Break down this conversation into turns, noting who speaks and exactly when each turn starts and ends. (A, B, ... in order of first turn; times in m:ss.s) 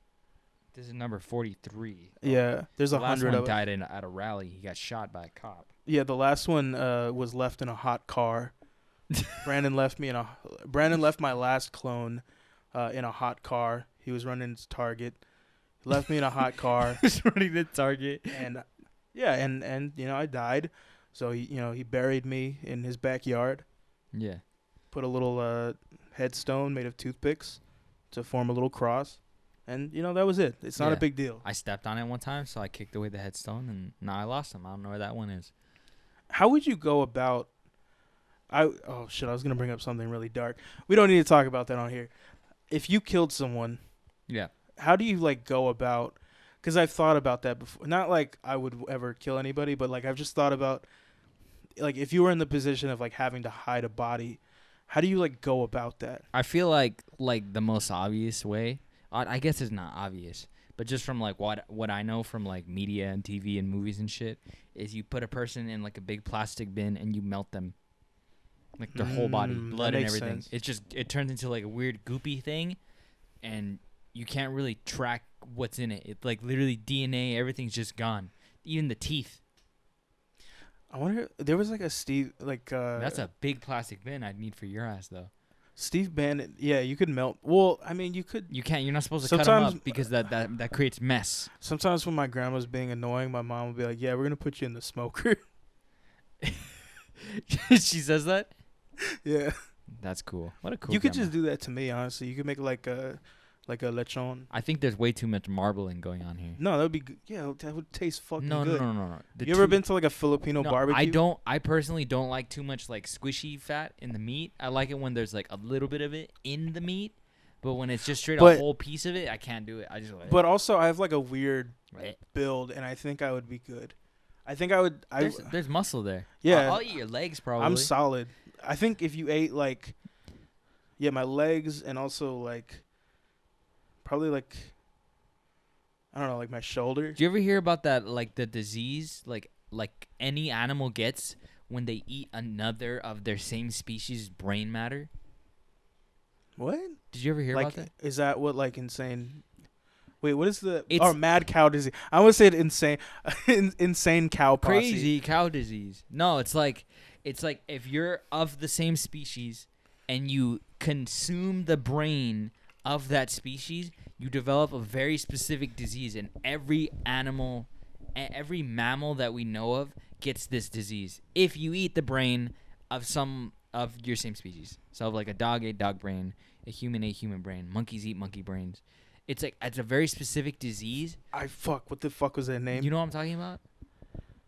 0:00.7-0:02.4 A
0:02.2-0:03.6 B
0:02.9-0:05.7 A
0:05.9-0:08.5 B
0:09.2-0:09.4 A
0:09.4-0:15.2 B
0:15.8-0:17.0 B
0:16.8-0:18.5 A
0:18.3-0:23.6 B
0:24.1-0:24.4 A
0:24.9-0:27.6 B
0:28.1-0:31.4 B
0:30.8-0:35.5 A
0:36.3-0:37.5 B
0:38.5-0:42.1 B
0:42.7-0:43.8 B
0:44.8-0:50.9 B
0:51.8-0:56.2 B
0:56.3-1:07.8 A
1:08.8-1:12.8 A
1:08.9-1:10.5 B
1:13.4-1:19.4 A
1:20.9-1:23.3 B
1:23.0-1:25.3 A
1:25.8-1:28.5 B
1:28.5-1:31.5 A
1:29.2-1:30.0 B
1:31.6-1:35.4 B
1:36.4-1:38.5 A
1:39.1-1:39.6 B
1:40.0-1:41.3 A
1:40.9-1:44.5 B
1:44.5-1:46.6 A
1:46.6-1:48.9 B
1:48.4-1:49.8 A
1:49.4-1:51.2 B
1:50.6-2:00.4 A
1:58.4-1:58.6 B
2:00.3-2:03.9 B
2:04.5-2:05.5 B
2:05.2-2:07.9 A
2:06.4-2:06.8 B
2:07.6-2:09.9 B
2:11.0-2:12.8 B
2:14.0-2:14.7 B
2:16.1-2:17.2 B
2:17.2-2:25.1 A
2:26.6-2:27.0 B
2:27.1-2:27.9 A
2:27.5-2:29.4 B
2:30.2-2:35.1 B
2:30.9-2:31.2 A
2:34.6-3:01.2 A
3:01.3-3:02.9 B
3:02.7-3:03.6 A